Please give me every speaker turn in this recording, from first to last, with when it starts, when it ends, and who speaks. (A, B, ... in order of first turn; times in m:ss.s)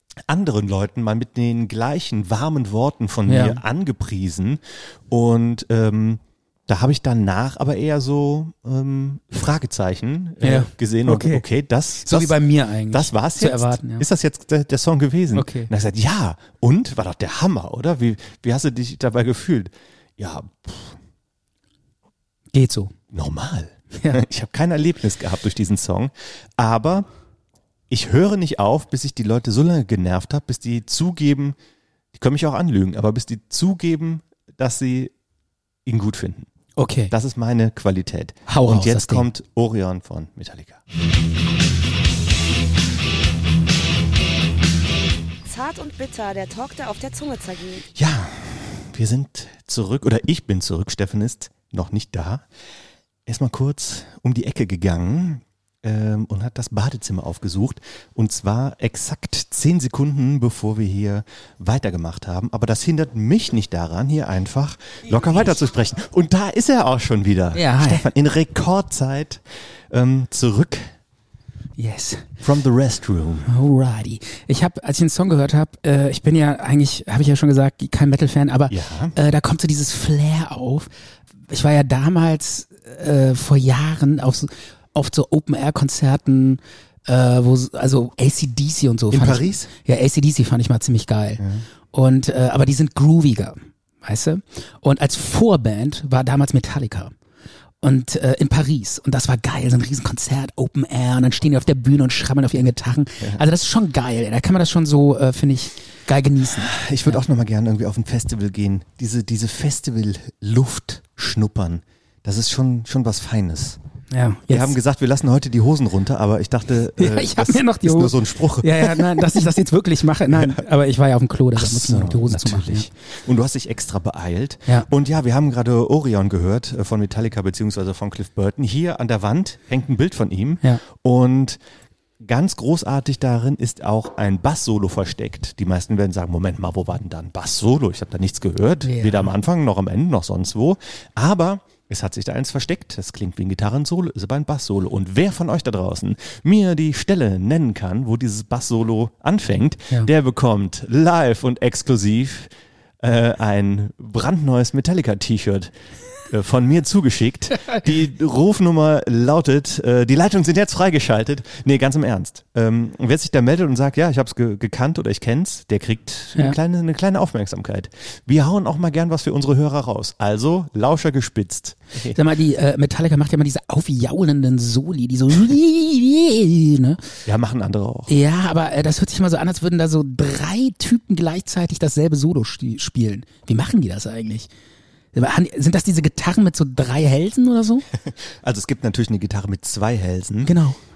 0:00.3-0:12.4 A
0:03.2-0:03.6 B
0:10.4-0:11.4 B
0:12.0-0:14.0 B
0:12.9-0:21.0 A
0:15.4-0:15.7 B
0:22.5-0:22.9 B
0:23.1-0:27.1 A
0:23.9-0:24.2 B
0:27.9-0:31.6 A
0:32.1-0:35.1 A
0:35.9-0:36.5 A
0:36.8-0:37.1 B
0:37.1-0:40.8 A
0:38.5-0:39.3 B
0:45.4-0:47.9 C
0:48.0-0:52.4 A
0:53.2-1:10.9 A
1:07.5-1:08.1 B
1:11.8-1:12.3 B
1:12.4-1:13.5 A
1:13.5-1:20.9 B
1:18.7-1:19.1 A
1:21.5-1:37.1 B
1:29.1-1:29.7 A
1:31.4-1:31.6 A
1:37.8-1:47.2 B
1:46.6-1:53.8 A
1:54.1-1:54.8 B
1:54.5-1:59.4 A
1:57.0-2:02.9 B
2:00.3-2:00.6 A
2:01.6-2:11.6 A
2:12.2-2:32.5 A
2:18.8-2:19.3 B
2:33.0-2:35.7 A
2:36.3-2:52.2 A
2:52.1-2:57.1 B
2:57.2-2:58.1 A
2:58.1-3:04.5 B
3:05.1-3:07.8 B
3:07.9-3:10.5 A
3:10.4-3:10.8 B